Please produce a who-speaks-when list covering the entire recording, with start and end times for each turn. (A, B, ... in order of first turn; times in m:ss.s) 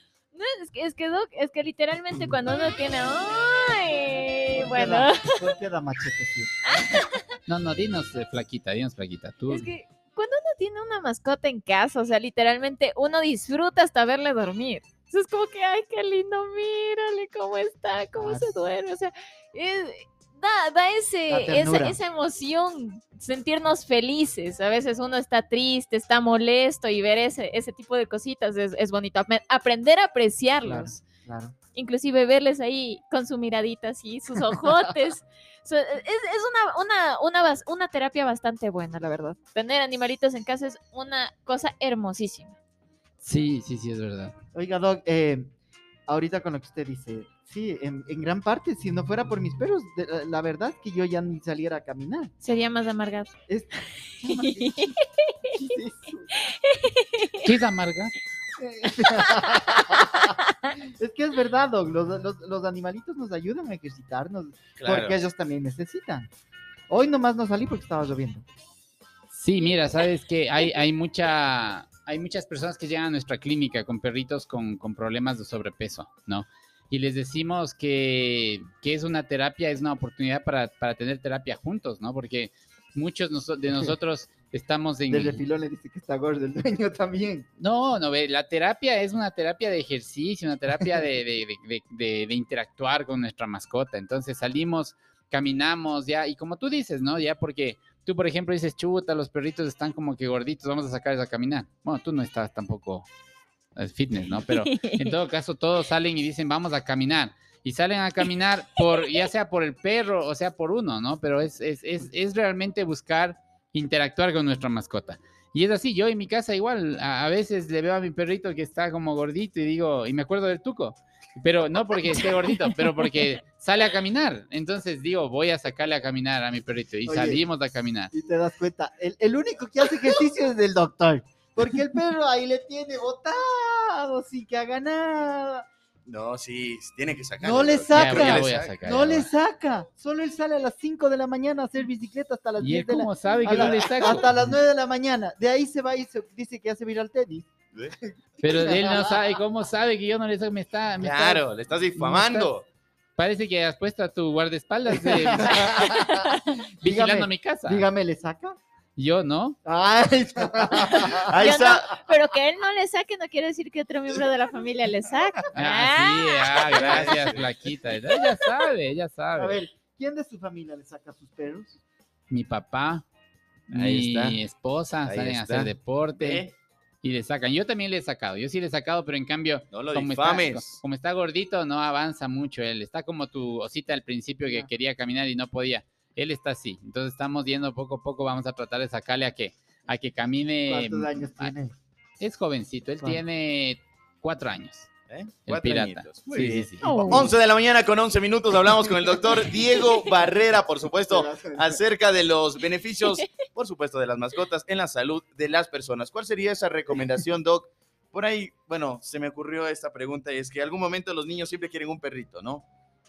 0:00.3-0:05.5 A
0:04.6-0:06.8 B
0:06.7-0:07.2 A
0:07.5-0:09.7 C
0:09.5-0:31.0 A
0:18.2-0:18.4 B
0:21.3-0:22.0 B
0:30.6-0:31.5 B
0:31.7-0:42.5 A
0:43.2-0:44.3 C
0:44.5-0:45.5 B
0:46.1-0:52.3 B
0:52.4-0:53.3 A
0:53.5-0:55.0 B
0:54.3-0:54.9 A
0:55.5-0:56.3 B
0:56.4-0:57.4 A
0:57.4-0:58.1 C
0:58.6-1:00.3 B
1:00.3-1:00.7 A
1:01.0-1:06.3 B
1:04.8-1:05.2 D
1:06.9-1:08.4 B
1:09.3-1:25.4 C
1:25.1-1:27.4 B
1:27.6-1:43.0 C
1:43.8-2:08.1 C
1:44.6-1:44.9 A
2:07.0-2:07.4 B
2:08.1-2:15.7 B
2:16.0-2:18.7 D
2:17.4-2:27.5 B
2:17.9-2:19.3 C
2:22.6-2:24.3 C
2:23.4-2:24.2 D
2:28.3-2:29.3 B
2:28.4-2:31.4 C
2:31.0-2:32.6 D
2:32.0-2:32.5 C
2:33.2-2:35.9 C
2:35.0-2:36.1 B
2:35.8-2:36.5 A
2:36.8-2:37.9 C
2:36.8-2:38.6 B
2:39.0-2:39.6 C
2:39.6-2:41.5 B
2:41.3-2:41.9 D
2:41.4-2:46.6 A
2:45.5-2:49.6 C
2:46.6-2:47.5 D
2:49.4-2:51.8 B
2:52.3-2:53.0 C
2:53.7-2:56.4 C
2:53.7-2:54.4 D
2:55.0-2:56.5 D
2:57.0-3:11.5 C
2:59.7-3:00.8 D
3:10.6-3:11.7 B
3:12.2-3:14.9 C
3:15.1-3:32.6 D
3:15.5-3:16.8 C
3:16.8-3:17.2 B
3:16.8-3:17.3 A
3:21.1-3:21.8 B